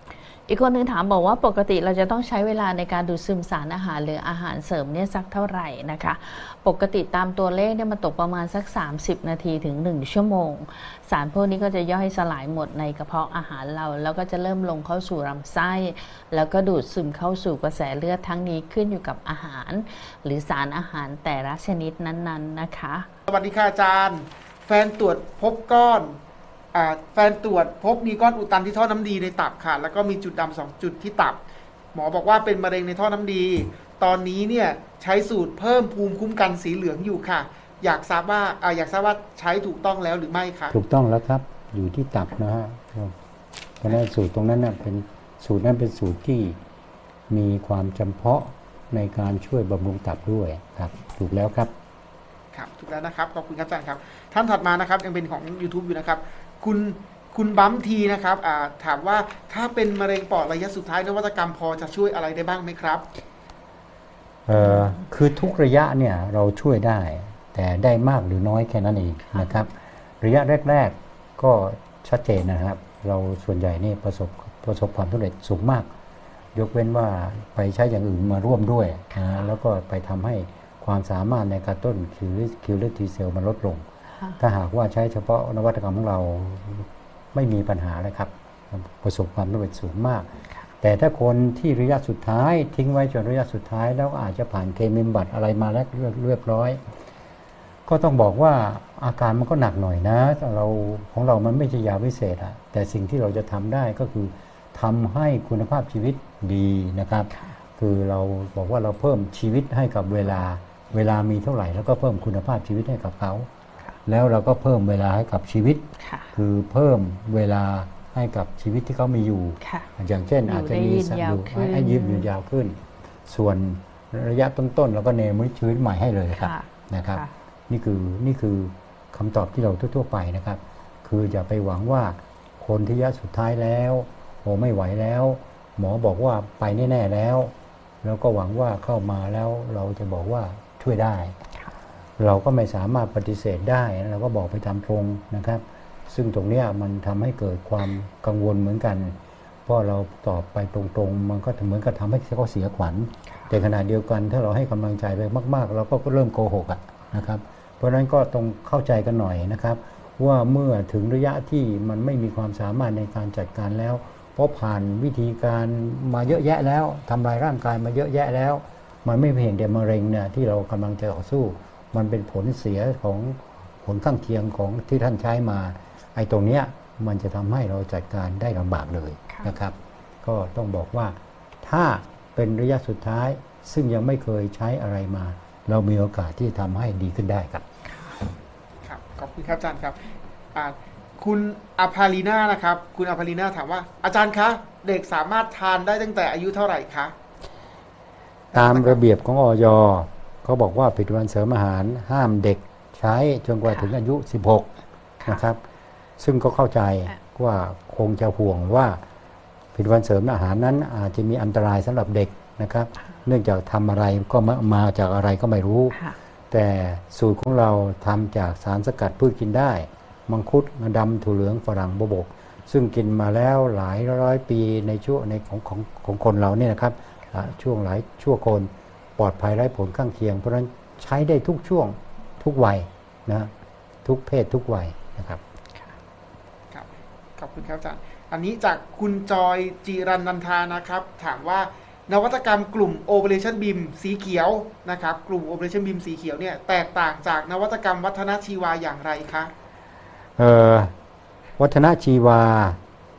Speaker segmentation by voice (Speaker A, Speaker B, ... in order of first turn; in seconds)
Speaker A: 0.5-23.1, 64.5-65.0, 69.3-69.6, 79.1-79.5, 107.3-107.6, 116.0-116.3, 119.6-119.9, 120.5-122.3, 126.3-127.3, 187.8-188.2, 215.9-216.2
Speaker B: 23.3-26.2, 26.7-31.4, 31.9-40.8, 52.5-63.0, 188.8-197.1, 198.5-199.0, 236.7-249.5
Speaker C: 40.7-43.1, 43.8-46.6, 47.3-51.7, 64.5-75.9, 76.5-83.8, 84.4-90.3, 90.8-96.8, 97.8-113.5, 114.0-115.8, 116.3-137.5, 138.0-141.3, 142.2-187.6, 198.5-204.7, 205.2-205.6, 206.2-209.0, 209.7-215.9, 216.5-233.5, 234.0-235.4, 250.4-250.9, 251.6-252.8